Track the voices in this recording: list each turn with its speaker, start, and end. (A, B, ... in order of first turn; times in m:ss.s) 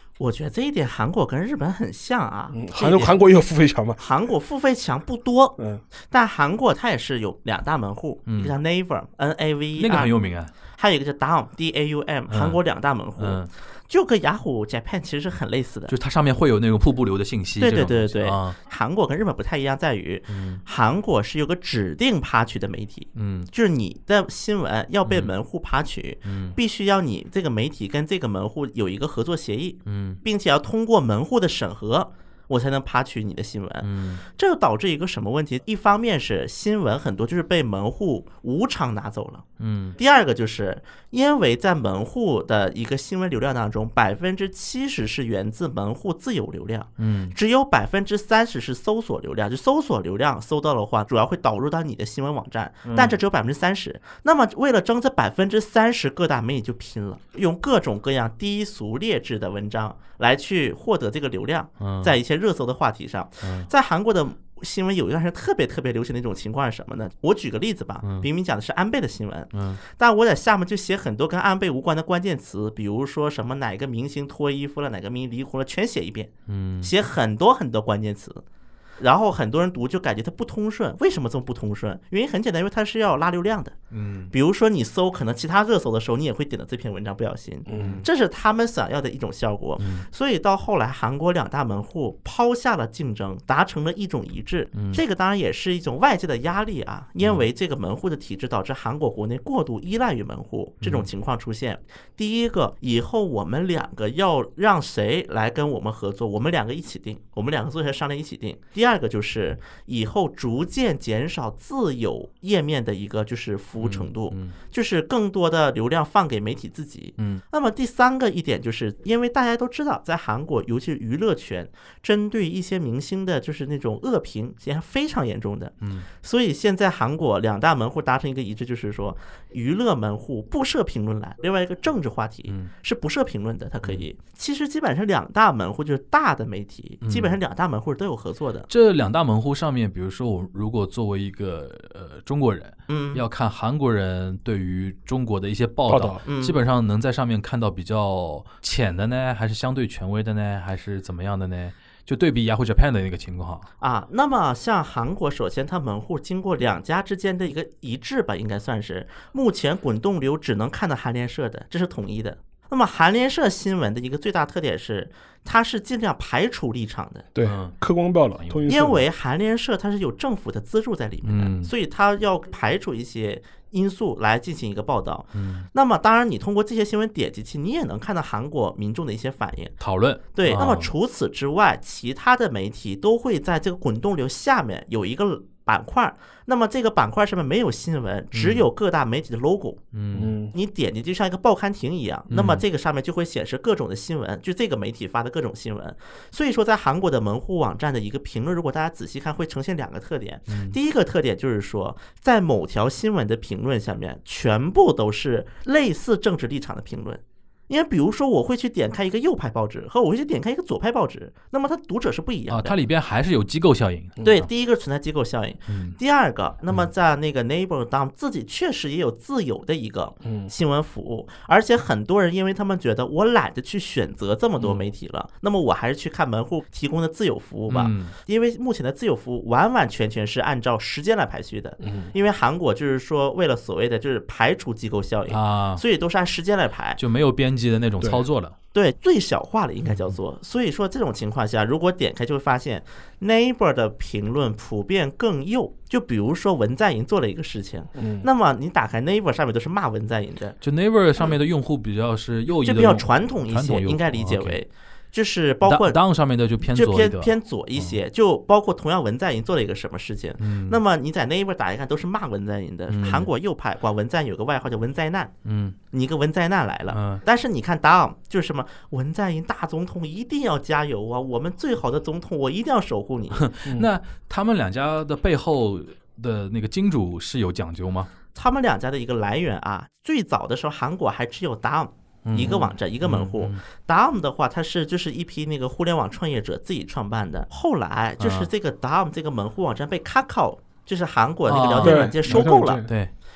0:00.2-0:03.1 A
0:02.5-0:04.0 B
0:04.0-0:05.6 A
0:06.1-0:10.1 A
0:08.3-0:08.5 C
0:09.8-0:10.5 C
0:10.7-0:15.9 A
0:12.3-0:12.6 C
0:13.2-0:13.5 C
0:15.9-0:18.6 C
0:17.6-0:39.4 A
0:20.3-0:20.6 C
0:23.2-0:23.5 C
0:25.0-0:25.3 C
0:26.2-0:26.6 C
0:29.8-0:30.2 C
0:33.8-0:34.2 C
0:39.6-0:40.0 C
0:40.0-1:18.4 A
0:47.0-0:47.4 C
0:52.8-0:53.2 C
1:01.8-1:02.1 C
1:03.4-1:03.7 C
1:08.0-1:08.3 C
1:09.5-1:09.8 C
1:16.5-1:16.9 C
1:19.0-1:23.8 A
1:23.9-1:24.3 C
1:24.3-2:18.7 A
1:27.7-1:28.0 B
1:27.7-1:28.0 C
1:29.8-1:30.1 C
1:34.7-1:35.0 C
1:40.8-1:41.1 C
1:53.8-1:54.5 C
2:05.8-2:06.1 C
2:17.0-2:17.4 C
2:18.7-2:33.6 C
2:22.9-2:23.2 A
2:25.9-2:26.2 B
2:26.2-2:26.6 A
2:33.8-2:47.2 A
2:47.3-2:49.0 B
2:47.4-2:47.8 C
2:48.4-2:48.7 C
2:48.7-2:59.7 A
2:51.2-2:51.7 C
2:55.3-2:55.7 C
2:59.8-3:00.9 C
3:00.3-3:09.8 A
3:08.3-3:08.6 C
3:09.9-3:10.3 C
3:10.1-3:10.5 B
3:10.5-3:32.8 A
3:12.3-3:12.6 C
3:20.5-3:20.8 C
3:32.5-3:34.5 C
3:34.2-3:57.0 A
3:35.7-3:36.0 C
3:40.2-3:40.5 B
3:47.7-3:48.1 C
3:51.8-3:52.1 B
3:55.3-3:55.8 C
3:57.0-3:58.5 C
3:58.0-3:58.2 B
3:58.7-4:10.6 A
4:07.9-4:08.3 B
4:10.6-4:14.6 C
4:12.6-4:16.0 A
4:15.6-4:18.0 C
4:16.7-4:25.3 A
4:20.4-4:20.8 C
4:22.9-4:23.3 C
4:25.4-4:25.8 C
4:25.9-4:33.5 A
4:26.9-4:27.2 C
4:33.3-4:38.1 C
4:33.6-4:33.9 B
4:38.3-4:52.8 A
4:42.2-4:43.6 C
4:48.2-4:48.5 C
4:51.4-4:53.1 C
4:51.8-4:52.9 B